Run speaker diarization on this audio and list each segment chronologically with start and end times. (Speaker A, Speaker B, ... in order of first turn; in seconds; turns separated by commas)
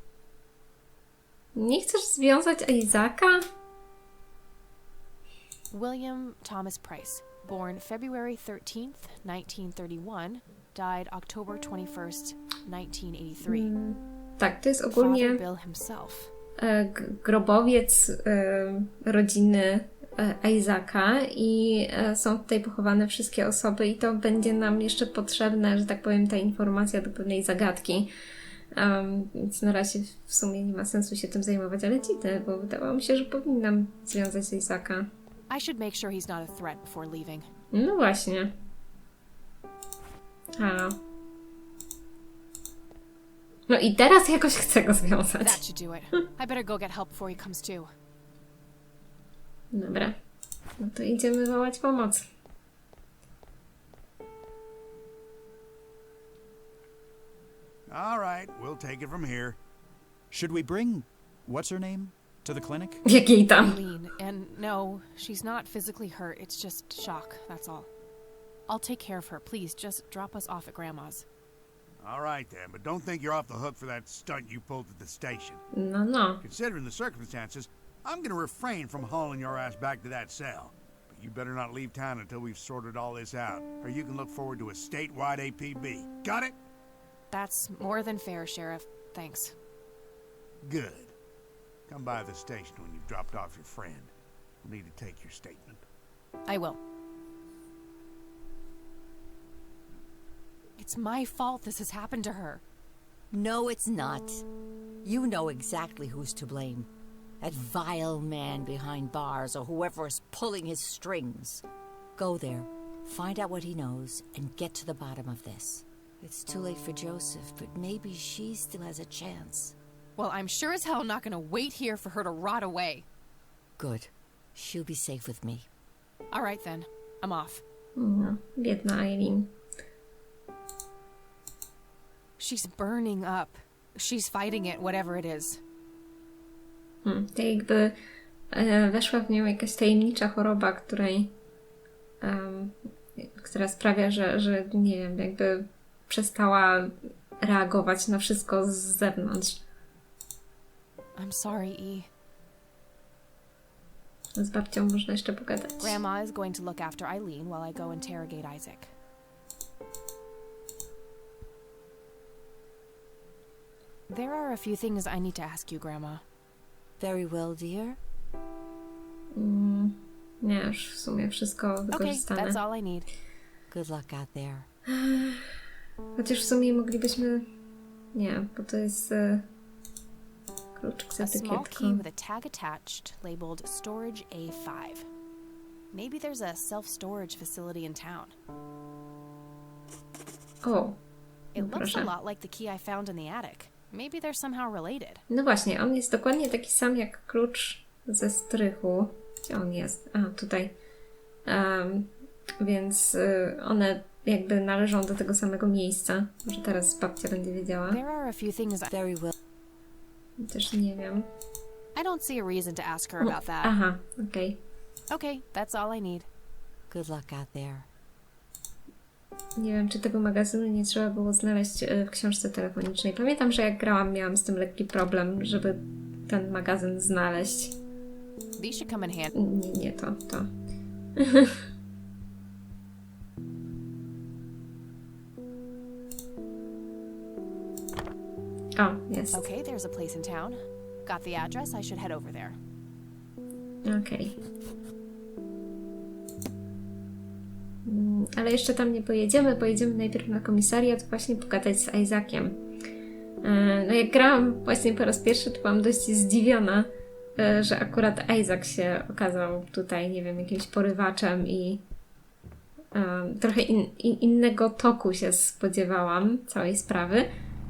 Speaker A: 1.6-3.5, Speaker B: 5.7-13.7, Speaker A: 13.4-15.4, Speaker B: 15.0-16.3, Speaker A: 16.6-28.1, Speaker A: 28.7-35.1, Speaker B: 35.5-37.5, Speaker A: 37.7-38.5, Speaker A: 40.6-41.0, Speaker A: 43.7-45.6, Speaker B: 45.4-47.9, Speaker A: 49.7-50.2, Speaker A: 50.8-52.3, Speaker C: 57.9-59.6, Speaker D: 60.3-63.0, Speaker A: 63.1-63.8, Speaker B: 63.6-67.9, Speaker B: 68.7-71.3, Speaker C: 72.0-75.6, Speaker A: 75.7-76.4, Speaker C: 76.4-86.6, Speaker B: 87.3-89.5, Speaker C: 90.6-91.1, Speaker C: 91.9-94.1, Speaker C: 94.6-95.8, Speaker B: 96.5-96.8, Speaker B: 100.8-102.6, Speaker E: 103.3-104.4, Speaker E: 105.0-106.9, Speaker E: 107.4-111.6, Speaker E: 112.2-119.8, Speaker B: 120.2-123.1, Speaker E: 123.8-125.7, Speaker B: 126.3-127.6, Speaker A: 128.0-129.5, Speaker B: 132.4-135.6, Speaker A: 137.0-138.0, Speaker A: 138.5-141.3, Speaker A: 142.2-149.6, Speaker B: 151.2-152.1, Speaker A: 154.4-156.0, Speaker B: 155.8-158.9, Speaker B: 164.1-166.2, Speaker E: 167.0-168.0, Speaker A: 169.3-172.6, Speaker B: 171.9-173.1, Speaker E: 173.7-174.7, Speaker A: 174.9-175.5, Speaker A: 176.2-177.5, Speaker A: 178.2-179.5, Speaker A: 180.8-182.0, Speaker B: 181.2-185.1, Speaker B: 185.9-188.3, Speaker A: 190.6-191.0, Speaker B: 191.6-195.2, Speaker A: 191.6-192.1, Speaker A: 195.3-200.8, Speaker A: 201.5-208.0, Speaker B: 207.9-208.9, Speaker E: 208.9-209.3, Speaker A: 210.4-211.3, Speaker B: 211.9-213.7, Speaker A: 213.2-214.6, Speaker B: 215.1-216.3, Speaker E: 216.9-217.9, Speaker A: 219.6-227.8, Speaker B: 228.6-229.3, Speaker A: 229.3-230.5, Speaker A: 231.2-231.6, Speaker A: 238.8-239.5, Speaker B: 239.3-242.6, Speaker A: 243.8-244.3, Speaker A: 247.9-252.6, Speaker A: 253.4-261.8, Speaker A: 262.9-267.3